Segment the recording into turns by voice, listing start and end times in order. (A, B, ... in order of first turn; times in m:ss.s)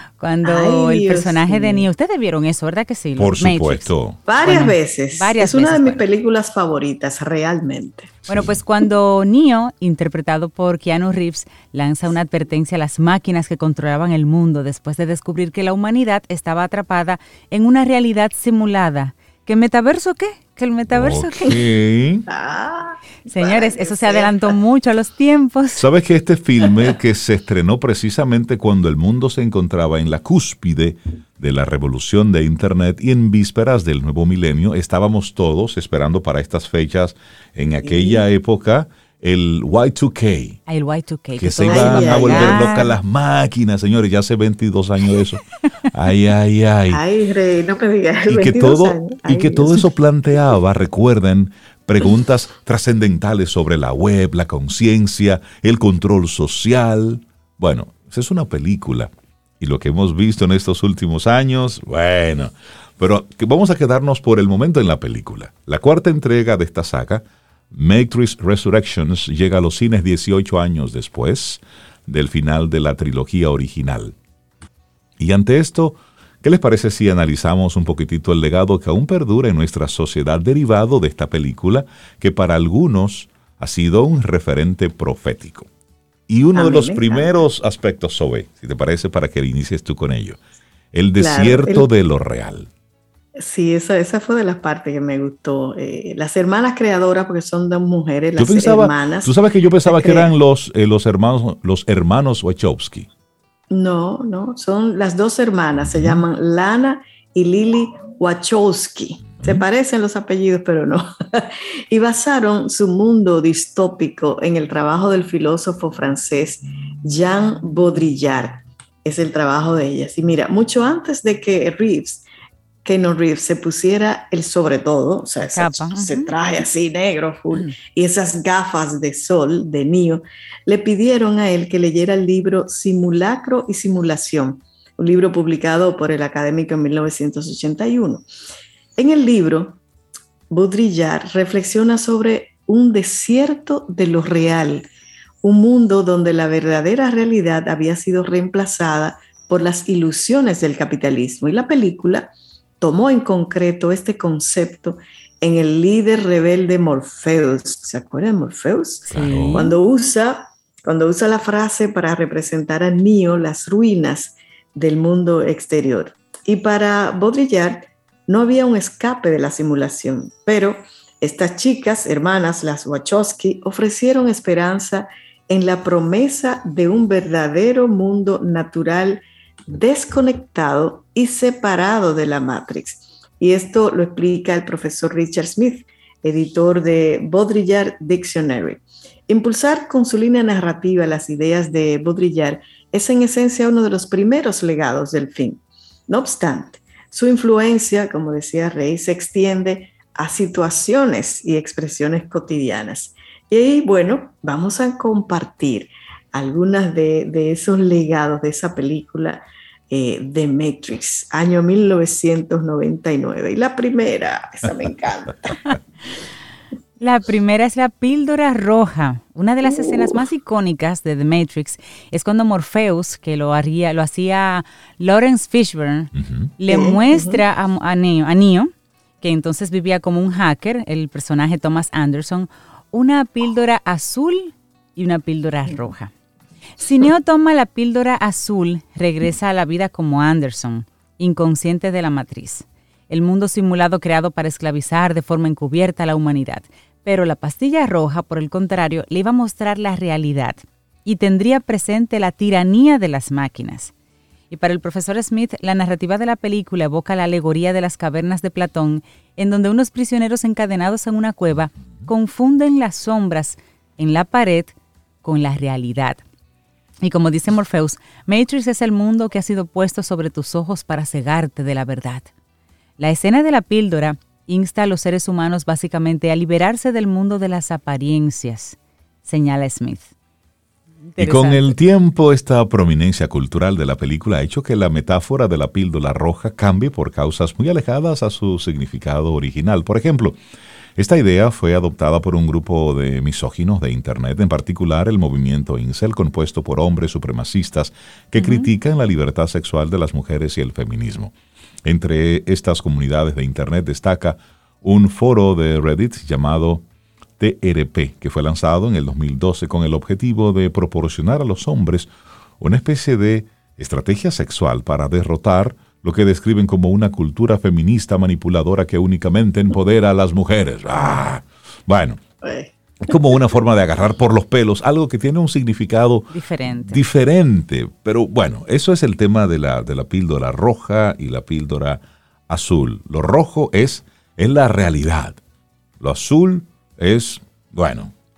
0:00.2-0:06.0 A
0:00.4-0:01.9 B
0:03.2-0:04.2 C
0:04.3-0:08.1 B
0:08.3-0:08.6 C
0:08.3-0:21.5 A
0:20.9-0:22.3 C
0:22.3-0:24.6 B
0:23.3-0:25.8 A
0:25.8-0:40.6 C
0:37.8-0:38.2 B
0:40.7-0:42.9 A
0:41.4-0:47.0 C
0:41.7-0:42.9 B
0:46.9-0:50.0 B
0:48.3-1:14.2 C
1:15.2-1:25.7 C
1:26.3-1:30.4 C
1:26.5-1:27.3 B
1:30.9-1:32.7 C
1:31.2-1:31.9 B
1:33.4-1:39.4 B
1:38.4-1:43.1 C
1:39.9-1:40.3 B
1:43.7-2:02.3 B
1:45.8-1:46.2 C
2:02.8-2:18.3 B
2:05.4-2:06.3 A
2:19.0-2:19.8 B
2:20.5-2:24.9 B
2:25.4-3:35.5 B
2:39.1-2:39.8 A
2:39.1-2:39.7 C
3:37.0-3:56.1 A
3:46.2-3:46.5 C
3:46.7-3:47.4 B
3:56.8-4:13.9 A
4:14.5-4:26.2 A
4:27.0-4:32.3 A
4:33.0-4:40.1 A
4:41.1-4:41.8 A
4:41.2-4:50.4 C
4:51.0-5:01.3 C
4:58.4-4:58.7 A
5:01.8-5:06.8 C
5:07.4-5:12.1 C
5:12.6-5:22.2 C
5:22.4-5:22.7 B
5:23.0-5:35.4 C
5:26.3-5:27.0 A
5:36.0-5:38.1 C